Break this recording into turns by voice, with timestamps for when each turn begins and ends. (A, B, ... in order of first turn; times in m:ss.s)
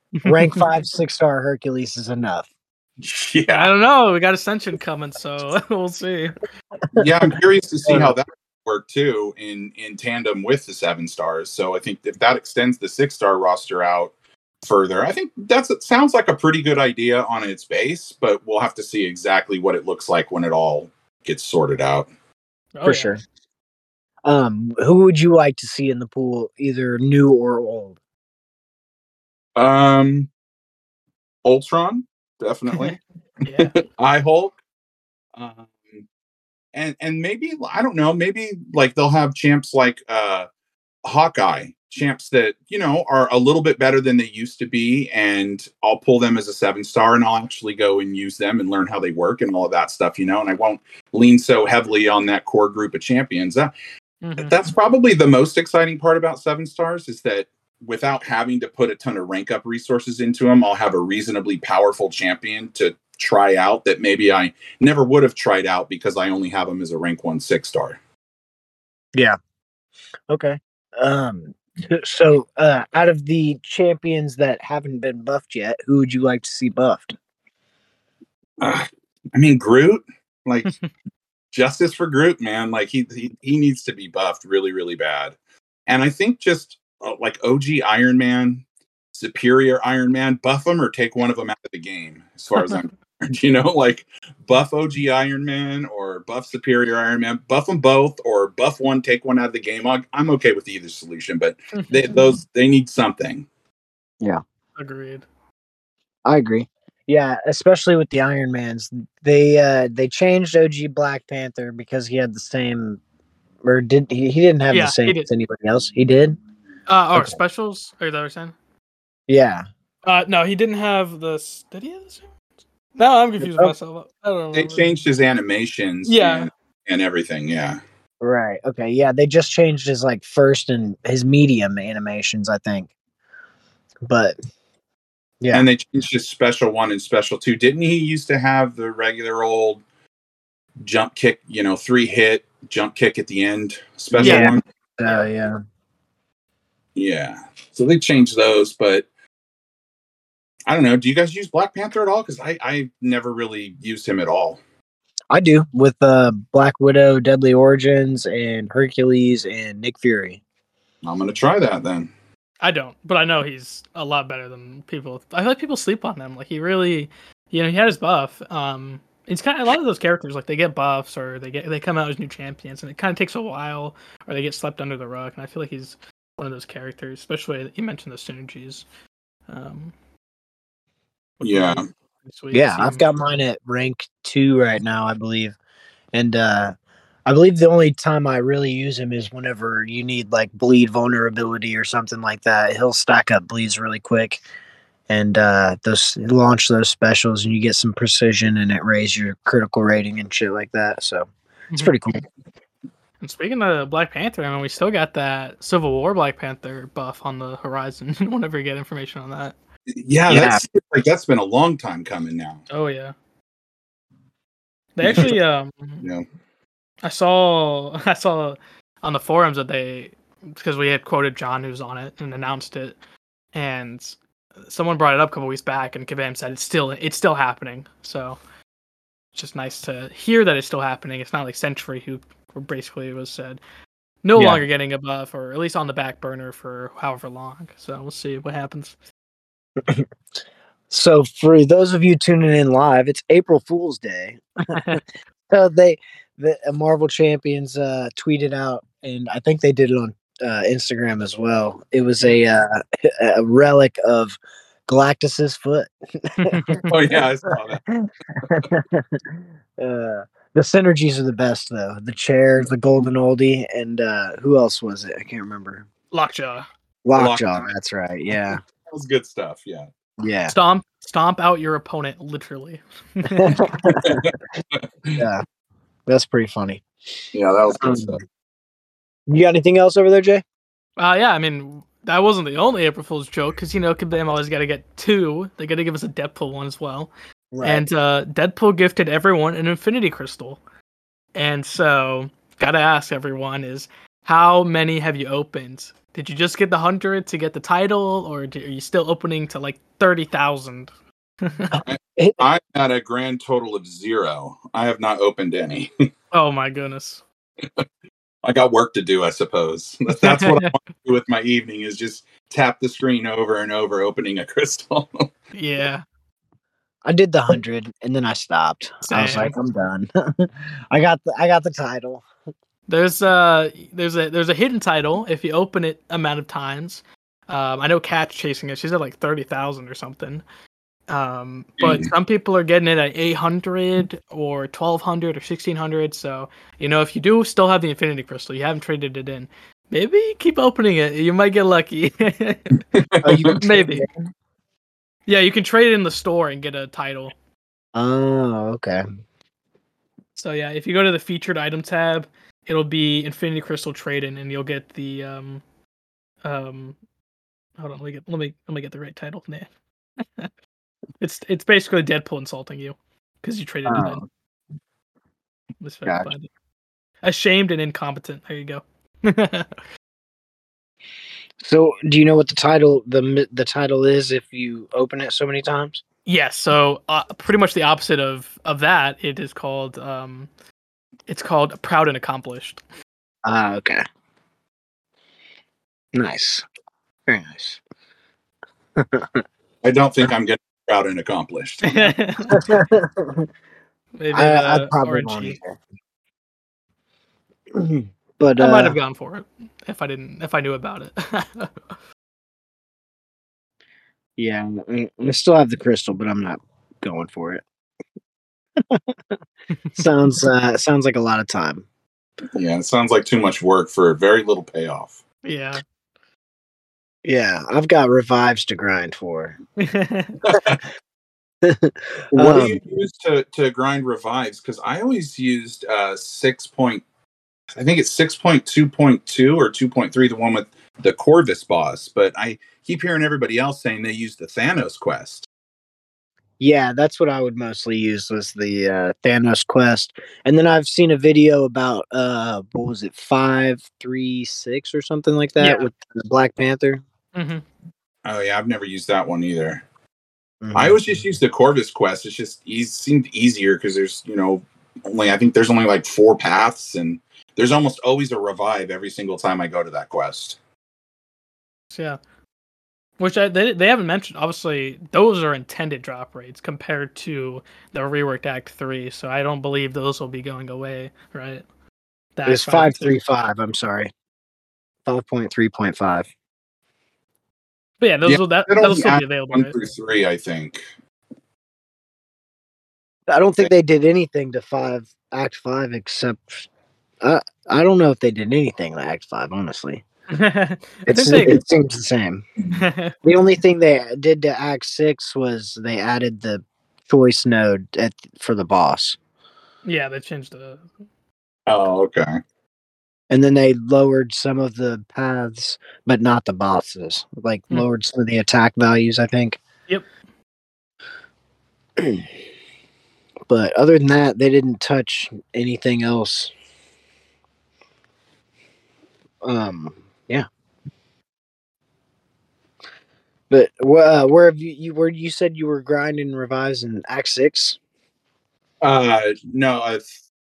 0:00.2-0:00.6 A
0:00.3-0:02.5 B
0:03.0-0:03.7 C
0:03.5-0:06.4 A
0:07.0-0:14.1 C
0:14.6-0:22.1 C
0:22.8-0:23.2 A
0:22.8-0:23.2 B
0:24.2-0:28.0 B
0:29.6-0:30.3 C
0:31.4-0:33.0 C
0:32.7-0:33.7 A
0:33.7-0:34.6 C
0:35.4-0:36.0 C
0:36.7-0:40.5 C
0:41.0-0:53.7 C
0:54.2-0:54.7 A
0:54.4-1:08.0 C
1:10.3-1:17.2 B
1:18.6-1:20.7 C
1:21.5-1:25.4 C
1:25.9-1:43.5 C
1:41.7-1:42.4 A
1:44.8-1:45.3 A
1:46.2-1:53.0 B
1:53.6-1:56.4 B
1:54.7-1:55.3 A
1:56.9-1:58.6 A
1:59.3-1:59.6 B
2:00.0-2:02.3 A
2:03.0-2:05.0 A
2:03.4-2:03.8 B
2:04.5-2:07.8 C
2:06.1-2:06.5 A
2:08.2-2:12.9 B
2:14.0-2:14.4 B
2:15.5-2:19.8 C
2:20.8-2:24.6 C
2:24.2-2:25.6 B
2:24.2-2:24.5 A
2:27.0-2:29.1 C
2:30.7-2:34.6 C
2:35.3-2:40.4 B
2:41.0-2:42.1 C
2:42.6-2:58.8 A
2:59.5-2:59.9 A
3:01.4-3:03.1 A
3:01.4-3:01.9 C
3:02.5-3:05.6 B
3:06.1-3:06.8 B
3:07.3-3:14.4 B
3:15.1-3:22.2 B
3:23.2-3:29.6 A
3:30.0-3:32.6 C
3:30.3-3:30.6 B
3:32.7-3:33.1 A
3:35.0-3:36.0 A
3:35.0-3:35.3 C
3:37.0-3:43.0 A
3:43.5-3:48.4 A
3:49.3-3:53.6 A
3:54.2-3:59.0 A
3:54.4-3:54.6 B
3:59.8-4:00.1 B
4:00.9-4:04.4 B
4:04.7-4:05.0 A
4:05.5-4:17.2 B
4:16.4-4:16.9 A
4:16.9-4:17.8 C
4:18.4-4:25.9 B
4:26.1-4:26.7 A
4:27.0-4:28.6 B
4:27.2-4:27.7 C
4:28.5-4:29.9 C
4:30.2-4:30.5 B
4:30.5-4:33.7 A
4:33.3-4:34.2 B
4:34.0-4:35.2 C
4:35.2-4:35.4 B
4:36.1-4:36.8 B
4:37.3-4:38.2 C
4:37.7-4:38.2 B
4:39.3-4:40.4 B
4:41.0-4:47.1 A
4:47.5-4:47.8 B
4:47.6-4:50.6 A
4:51.4-5:00.9 A
5:01.4-5:01.7 A
5:01.7-5:02.4 B
5:01.9-5:05.9 C
5:06.3-5:07.2 A
5:08.4-5:15.3 C
5:10.1-5:10.8 A
5:15.5-5:16.0 A
5:17.0-5:22.2 B
5:19.1-5:19.5 A
5:22.9-5:30.4 A
5:31.1-5:42.8 A
5:31.8-5:32.1 C
5:43.0-5:43.6 C
5:43.2-5:44.3 B
5:43.6-5:44.1 A
5:45.3-5:47.3 A
5:48.0-5:49.0 B
5:50.4-5:55.6 A
5:56.4-5:57.0 A
5:57.8-5:59.7 A
6:01.2-6:04.2 A
6:03.8-6:04.2 B
6:05.8-6:06.5 A
6:07.2-6:09.8 A
6:11.6-6:16.0 B
6:16.3-6:20.5 A
6:21.3-6:22.8 A
6:23.4-6:24.0 B
6:26.1-6:26.6 B
6:27.3-6:27.8 B
6:29.0-6:29.4 B
6:29.8-6:32.2 C
6:31.8-6:32.7 A
6:32.5-6:33.5 B
6:34.2-6:35.6 A
6:34.3-6:35.8 B
6:37.7-6:39.0 B
6:38.6-6:41.8 A
6:44.4-6:47.6 B
6:48.8-6:49.4 B
6:50.0-6:51.8 B
6:52.5-6:55.2 C
6:55.4-6:55.8 A
6:57.2-6:59.6 B
6:59.8-7:00.4 A
7:00.4-7:00.8 C
7:01.6-7:02.8 B
7:02.3-7:07.0 C
7:07.8-7:15.5 C
7:16.6-7:27.0 B
7:25.6-7:25.9 A
7:27.4-7:27.6 A
7:28.2-7:29.8 C
7:30.6-7:31.0 B
7:30.7-7:40.6 C
7:41.9-7:42.2 A
7:43.2-7:51.6 A
7:52.4-7:53.2 A
7:52.5-7:54.1 B
7:55.1-7:56.3 B
7:58.0-7:59.8 A
7:58.2-8:00.8 C
8:03.3-8:06.7 B
8:07.2-8:10.0 B
8:10.3-8:11.6 A
8:11.1-8:12.4 B
8:12.7-8:13.2 A
8:13.2-8:19.2 B
8:19.8-8:20.9 A
8:21.7-8:22.4 C
8:23.3-8:29.6 B
8:32.0-8:32.2 B
8:33.5-8:36.5 B
8:39.4-8:40.5 B
8:43.5-8:47.8 B
8:48.8-8:50.2 C